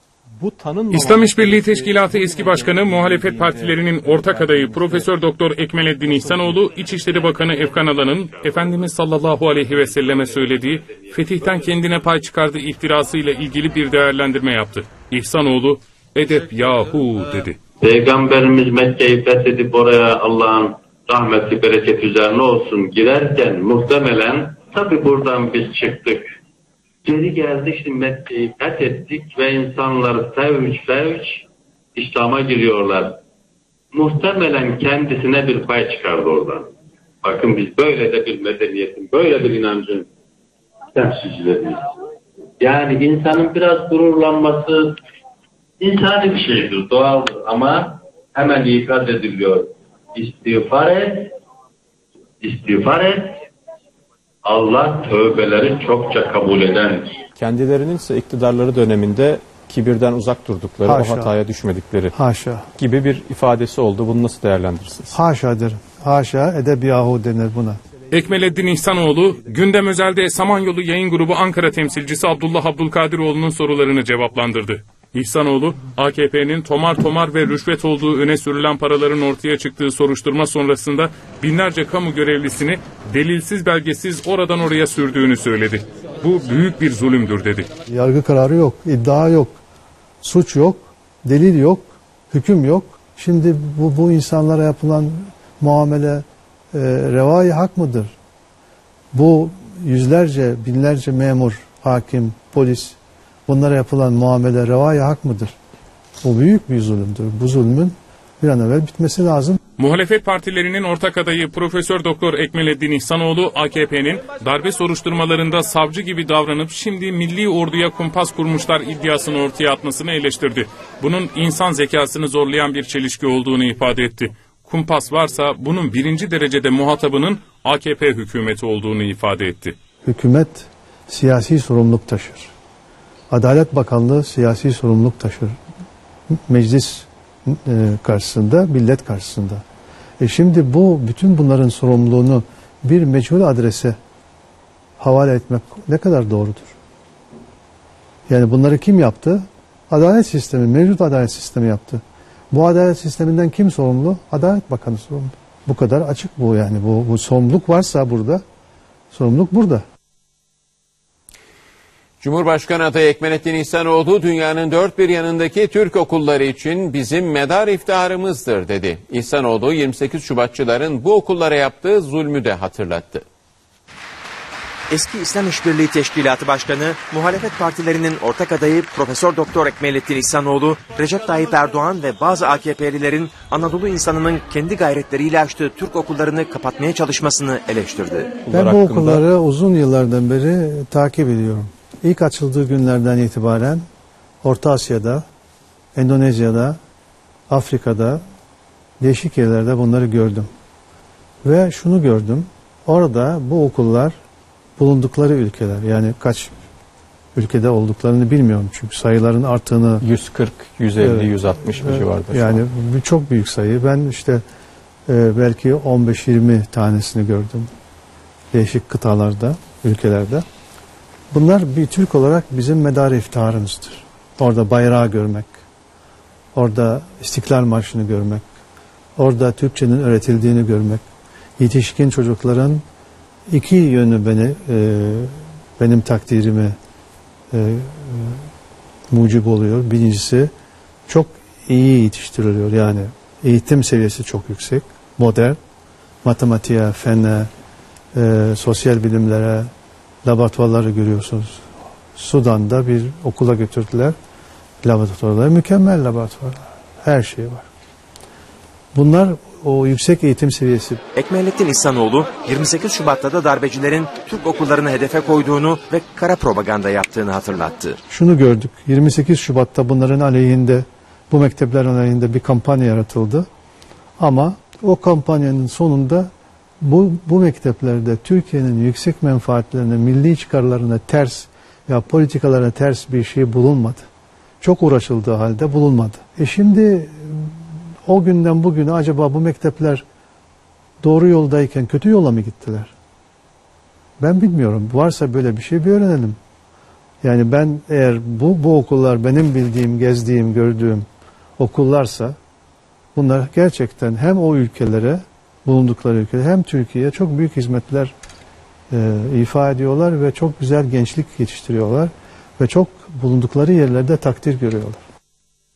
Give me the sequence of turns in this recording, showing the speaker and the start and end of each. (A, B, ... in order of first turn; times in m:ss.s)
0:00.4-0:05.1 A
0:00.9-0:17.6 B
0:06.2-0:09.0 C
0:06.2-0:06.6 A
0:09.6-0:12.2 C
0:17.8-0:26.2 C
0:27.0-0:31.4 C
0:32.0-0:33.2 C
0:33.9-0:36.7 C
0:37.2-0:40.1 C
0:41.0-0:41.8 C
0:42.6-0:45.0 C
0:45.8-0:51.3 C
0:52.4-0:53.4 C
0:54.4-0:57.2 C
0:57.4-1:02.1 A
1:00.8-1:01.4 D
1:02.1-1:02.7 D
1:02.8-1:05.2 A
1:05.1-1:07.8 D
1:08.1-1:27.7 B
1:27.9-1:29.6 D
1:30.2-1:38.1 D
1:39.1-1:45.5 D
1:46.2-1:49.6 D
1:49.8-2:09.8 B
2:10.0-2:12.5 D
2:13.3-2:15.6 D
2:16.5-2:19.6 D
2:20.2-2:24.0 D
2:25.0-2:26.8 D
2:28.3-2:38.4 D
2:39.1-2:39.8 D
2:42.2-2:53.2 E
2:54.9-3:08.3 F
3:08.5-3:09.2 A
3:08.5-3:13.8 D
3:14.4-3:15.2 D
3:16.0-3:16.8 D
3:17.5-3:18.2 D
3:19.0-3:20.5 D
3:21.4-3:24.2 D
3:24.8-3:26.6 D
3:27.4-3:30.1 D
3:30.0-3:32.6 A
3:31.0-3:34.4 D
3:35.1-3:37.7 D
3:38.5-3:40.4 D
3:41.3-3:45.6 D
3:46.6-3:48.4 D
3:49.2-3:51.0 D
3:51.6-3:52.8 D
3:53.5-3:56.8 D
3:57.5-3:58.4 D
3:59.1-4:00.5 D
4:01.1-4:05.6 D
4:06.2-4:07.5 D
4:08.1-4:09.7 D
4:10.2-4:11.6 D
4:12.2-4:14.2 D
4:14.8-4:17.7 D
4:18.9-4:21.0 D
4:21.2-4:28.0 F
4:28.1-4:33.5 D
4:34.2-4:36.3 D
4:36.8-4:44.0 D
4:44.6-4:47.5 D
4:48.1-4:50.0 D
4:51.0-4:52.9 D
4:54.2-4:56.4 D
4:57.2-5:01.1 D
5:01.6-5:02.4 D
5:03.2-5:08.1 D
5:08.9-5:15.0 D